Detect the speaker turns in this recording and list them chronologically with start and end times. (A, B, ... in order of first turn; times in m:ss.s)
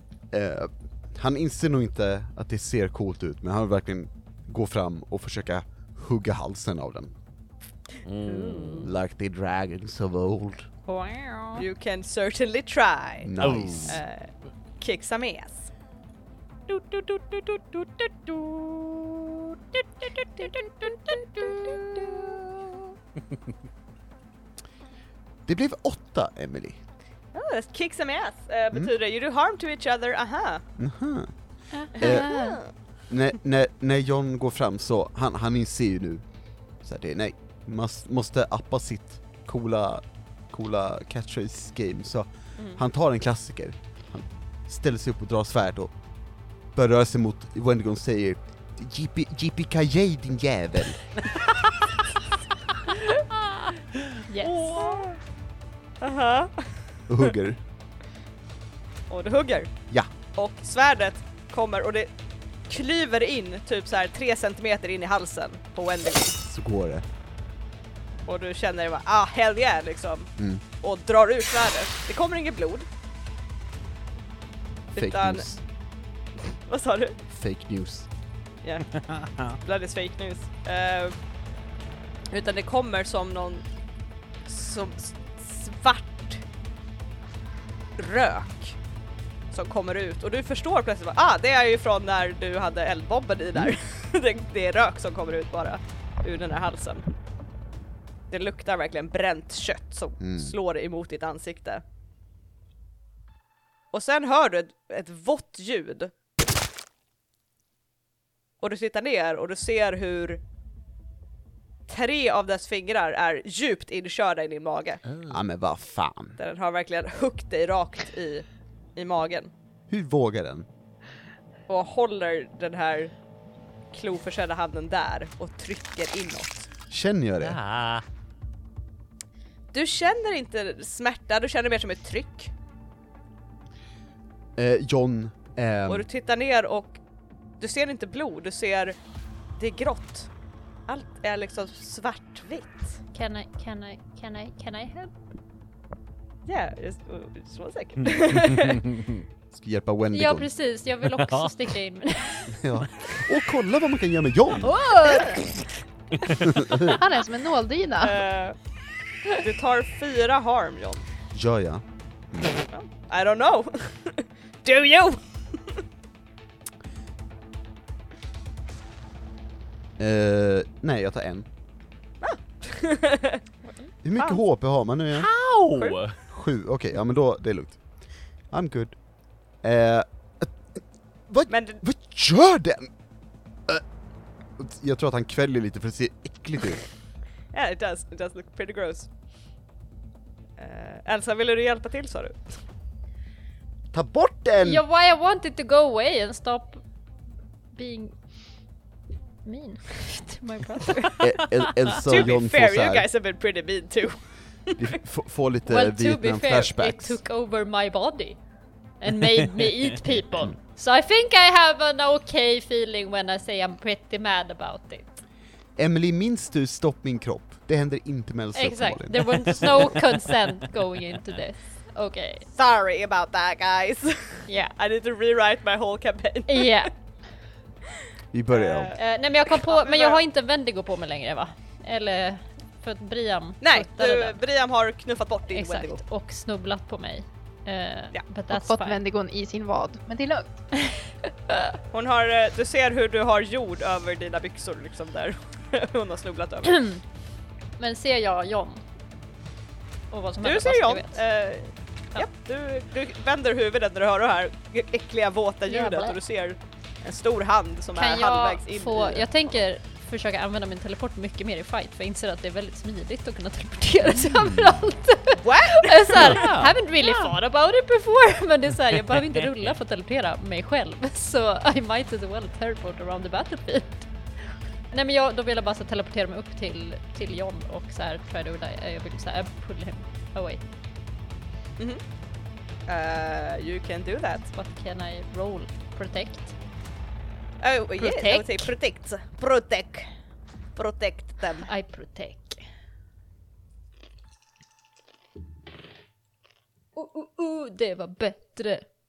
0:00.3-0:07.2 A
0:08.0-0:08.9 B
0:08.3-0:08.8 C
0:08.7-0:10.7 A
0:10.9-0:11.7 C
0:11.6-0:13.3 D
0:13.2-0:14.0 A
0:13.4-0:14.0 B
0:13.8-0:15.7 D
0:16.7-0:19.1 B
0:19.7-0:21.6 B
0:20.9-0:22.2 D
0:21.6-0:22.2 C
0:25.4-0:26.8 A
0:27.3-0:30.6 D
0:30.8-0:31.4 A
0:31.8-0:32.6 E
0:31.8-0:32.6 C
0:31.9-0:32.3 A
0:32.0-0:32.7 D
0:33.1-0:45.9 A
0:42.6-0:42.8 D
0:46.7-0:51.2 A
0:51.3-0:52.0 B
0:54.3-0:55.1 C
0:54.4-0:54.8 B
0:54.7-0:55.2 D
0:56.0-0:57.3 D
0:57.1-0:57.6 A
0:59.1-1:02.1 D
1:02.7-1:06.4 D
1:06.4-1:07.0 A
1:08.3-1:12.9 D
1:14.9-1:15.5 D
1:15.0-1:15.6 A
1:16.6-1:17.2 D
1:17.3-1:18.1 A
1:18.6-1:21.2 D
1:19.0-1:19.6 B
1:22.3-1:23.6 D
1:24.4-1:26.4 D
1:28.0-1:28.8 D
1:29.5-1:37.1 D
1:38.3-1:41.8 D
1:40.2-1:40.5 A
1:43.9-1:46.1 D
1:48.6-1:50.4 D
1:51.9-1:55.0 D
1:55.3-1:56.4 A
1:56.4-1:59.5 D
1:59.9-2:00.7 A
2:01.7-2:03.1 D
2:03.9-2:06.7 D
2:06.9-2:07.6 A
2:07.4-2:08.0 B
2:09.7-2:12.5 D
2:14.6-2:16.1 A
2:15.9-2:17.0 D
2:17.6-2:19.0 D
2:19.6-2:20.3 D
2:20.9-2:23.0 D
2:23.1-2:25.1 C
2:26.4-2:28.8 D
2:28.6-2:29.2 B
2:29.5-2:30.5 A
2:30.1-2:32.6 C
2:31.2-2:31.5 B
2:32.6-2:34.8 A
2:34.6-2:35.4 C
2:35.0-2:35.4 E
2:35.0-2:35.4 D
2:36.2-2:36.6 B
2:36.4-2:37.0 A
2:36.8-2:38.2 E
2:38.0-2:38.6 D
2:39.3-2:41.1 D
2:41.3-2:42.5 A
2:42.7-2:45.8 D
2:50.0-2:51.5 A
2:52.2-2:54.4 D
2:54.0-2:55.3 A
2:55.1-2:56.2 B
2:56.3-2:59.0 A
2:59.6-3:02.9 A
3:01.5-3:01.8 D
3:04.6-3:06.8 A
3:07.5-3:09.1 D
3:10.6-3:12.6 D
3:13.9-3:14.8 A
3:14.6-3:16.8 C
3:17.7-3:18.3 C
3:19.4-3:21.6 C
3:21.2-3:23.1 A
3:22.0-3:24.8 D
3:24.8-3:27.2 A
3:25.7-3:28.4 C
3:29.0-3:35.2 C
3:35.8-3:40.0 A
3:38.6-3:42.5 C
3:42.6-3:46.9 D
3:44.5-3:44.7 C
3:46.5-3:47.0 C
3:48.3-3:49.0 A
3:48.5-3:50.2 D
3:49.0-3:54.4 C
3:53.6-3:56.0 D
3:55.5-3:59.0 C
3:58.5-4:00.6 E
4:00.9-4:01.7 C
4:01.9-4:06.8 D
4:06.6-4:07.0 C
4:07.8-4:08.8 C
4:10.1-4:11.2 C
4:10.4-4:19.3 D
4:15.7-4:16.2 C
4:18.0-4:40.6 C
4:25.4-4:26.4 D
4:26.2-4:27.3 B
4:42.9-4:44.5 D
4:44.5-4:46.6 C
4:47.6-4:50.1 D
4:48.0-4:48.6 C
4:50.7-4:51.7 D
4:51.7-4:52.6 C
4:56.9-4:58.9 C